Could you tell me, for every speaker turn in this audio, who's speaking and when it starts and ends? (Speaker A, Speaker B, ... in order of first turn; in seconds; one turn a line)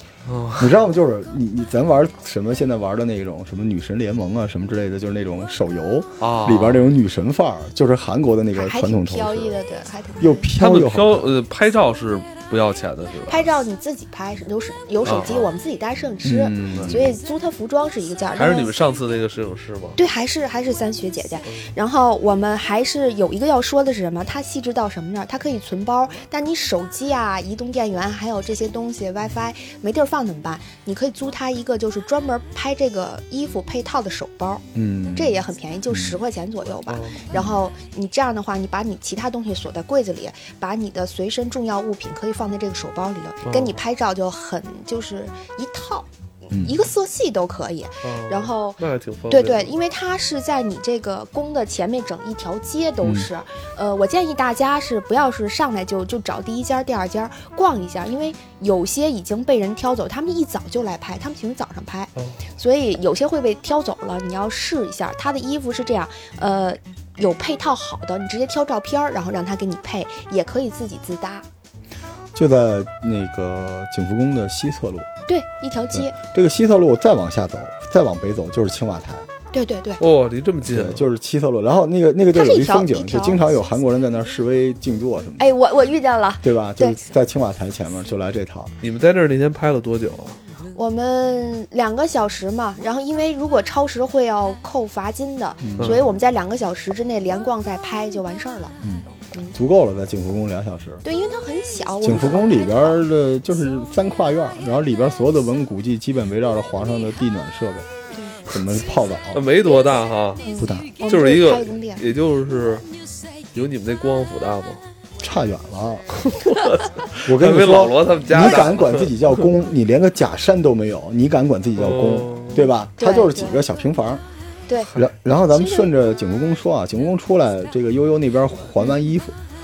Speaker A: 0.2-0.8
Speaker B: 0.6-9.6
Speaker A: 6.2-6.9
Speaker C: 8.6-10.5
Speaker B: 10.2-11.3
Speaker A: 10.6-13.5
Speaker C: 13.3-18.8
Speaker A: 15.1-15.5
Speaker B: 16.2-17.1
Speaker A: 16.7-17.0
Speaker A: 18.4-20.0
Speaker C: 20.0-48.8
Speaker A: 21.5-21.7
Speaker B: 34.7-35.4
Speaker B: 35.9-36.2
Speaker A: 36.9-37.3
Speaker B: 37.3-37.6
Speaker A: 43.4-43.8
Speaker B: 46.5-46.8
Speaker A: 48.0-49.8
Speaker C: 49.3-71.5
Speaker B: 53.0-53.3
Speaker B: 72.3-75.1
Speaker C: 75.3-76.1
Speaker B: 75.9-79.3
Speaker C: 79.5-80.0
Speaker A: 80.0-81.1
Speaker B: 80.7-85.5
Speaker C: 82.3-83.4
Speaker C: 85.4-87.0
Speaker B: 86.4-88.7
Speaker A: 88.8-90.4
Speaker C: 90.8-98.7
Speaker B: 95.6-96.0
Speaker A: 95.8-96.1
Speaker B: 98.8-101.0
Speaker C: 101.0-103.0
Speaker B: 102.0-107.9
Speaker C: 108.1-108.4
Speaker B: 108.5-109.5
Speaker A: 109.3-110.5
Speaker C: 110.4-112.0
Speaker B: 110.6-110.9
Speaker A: 111.1-112.9
Speaker A: 113.5-114.8
Speaker B: 115.2-116.1
Speaker A: 116.3-119.4
Speaker B: 117.2-124.2
Speaker A: 121.8-122.7
Speaker C: 123.0-123.6
Speaker C: 124.7-125.0
Speaker B: 124.9-129.3
Speaker C: 125.5-125.9